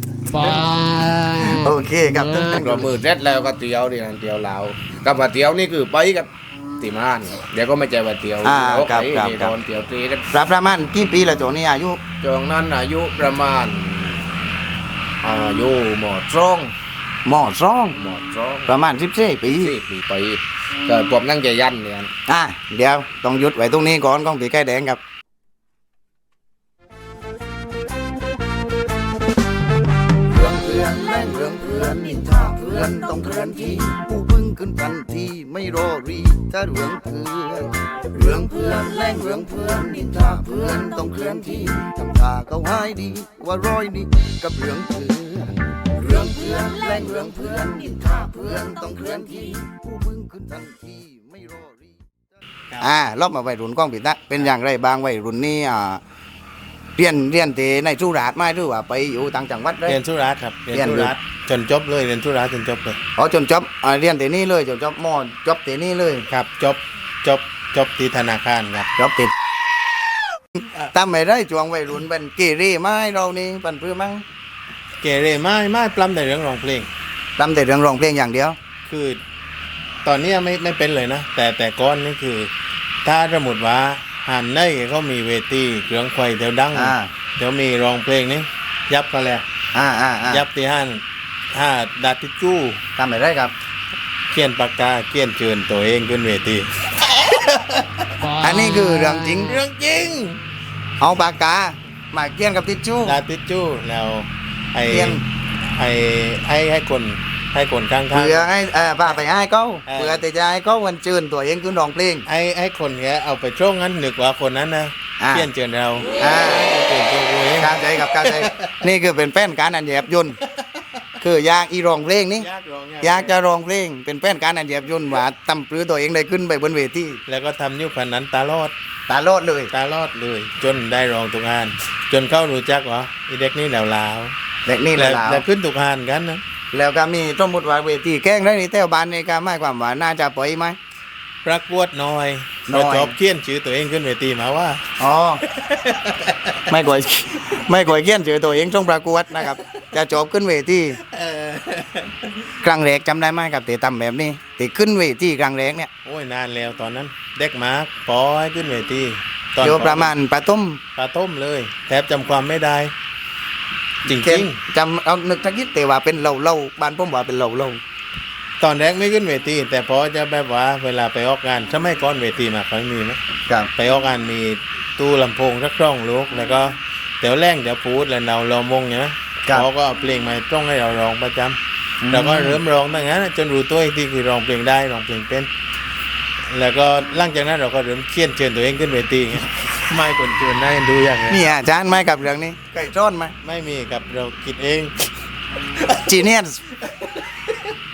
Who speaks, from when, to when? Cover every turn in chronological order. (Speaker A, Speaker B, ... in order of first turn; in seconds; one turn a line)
Speaker A: 0.3-2.3
Speaker B: 1.4-2.9
Speaker C: 2.5-10.3
Speaker B: 8.4-9.5
Speaker B: 10.3-12.0
Speaker C: 12.2-14.2
Speaker C: 15.2-16.7
Speaker B: 17.2-18.0
Speaker C: 17.9-18.8
Speaker B: 18.7-19.7
Speaker C: 19.4-22.1
Speaker B: 22.3-25.0
Speaker B: 30.3-52.0
Speaker B: 52.8-56.0
Speaker B: 57.0-60.0
Speaker D: 59.9-63.0
Speaker B: 60.7-61.1
Speaker B: 63.2-66.3
Speaker D: 66.3-68.9
Speaker B: 69.0-69.3
Speaker B: 70.9-74.2
Speaker D: 75.0-76.9
Speaker B: 77.4-78.5
Speaker D: 78.8-79.2
Speaker D: 80.0-82.5
Speaker D: 83.0-89.4
Speaker B: 86.7-87.1
Speaker B: 89.7-90.4
Speaker D: 90.3-92.8
Speaker B: 93.0-93.5
Speaker D: 94.3-98.1
Speaker A: 98.2-99.3
Speaker B: 98.4-99.6
Speaker D: 99.3-100.4
Speaker B: 101.0-103.2
Speaker D: 103.0-108.5
Speaker B: 104.9-105.2
Speaker B: 108.1-112.2
Speaker D: 109.9-110.2
Speaker D: 112.3-118.8
Speaker B: 115.2-115.5
Speaker B: 116.2-116.7
Speaker B: 117.6-120.4
Speaker D: 120.5-121.0
Speaker B: 121.2-122.5
Speaker D: 122.4-123.3
Speaker B: 123.0-127.2
Speaker D: 127.3-128.7
Speaker B: 129.1-129.7
Speaker D: 129.7-134.3
Speaker B: 134.7-135.4
Speaker D: 134.9-136.4
Speaker B: 136.7-140.8
Speaker D: 141.4-144.8
Speaker B: 142.7-143.2
Speaker B: 145.0-145.4
Speaker D: 145.4-146.7
Speaker B: 146.7-151.0
Speaker D: 151.0-152.5
Speaker B: 152.6-155.9
Speaker D: 156.0-160.1
Speaker B: 159.6-160.8
Speaker D: 160.9-162.9
Speaker D: 164.1-164.6
Speaker B: 164.1-167.8
Speaker D: 168.6-173.2
Speaker D: 173.8-181.6
Speaker B: 182.0-182.6
Speaker D: 182.1-185.5
Speaker D: 186.5-191.4
Speaker B: 191.3-193.3
Speaker D: 193.4-195.1
Speaker D: 195.8-196.2
Speaker B: 195.8-196.6
Speaker D: 196.9-197.6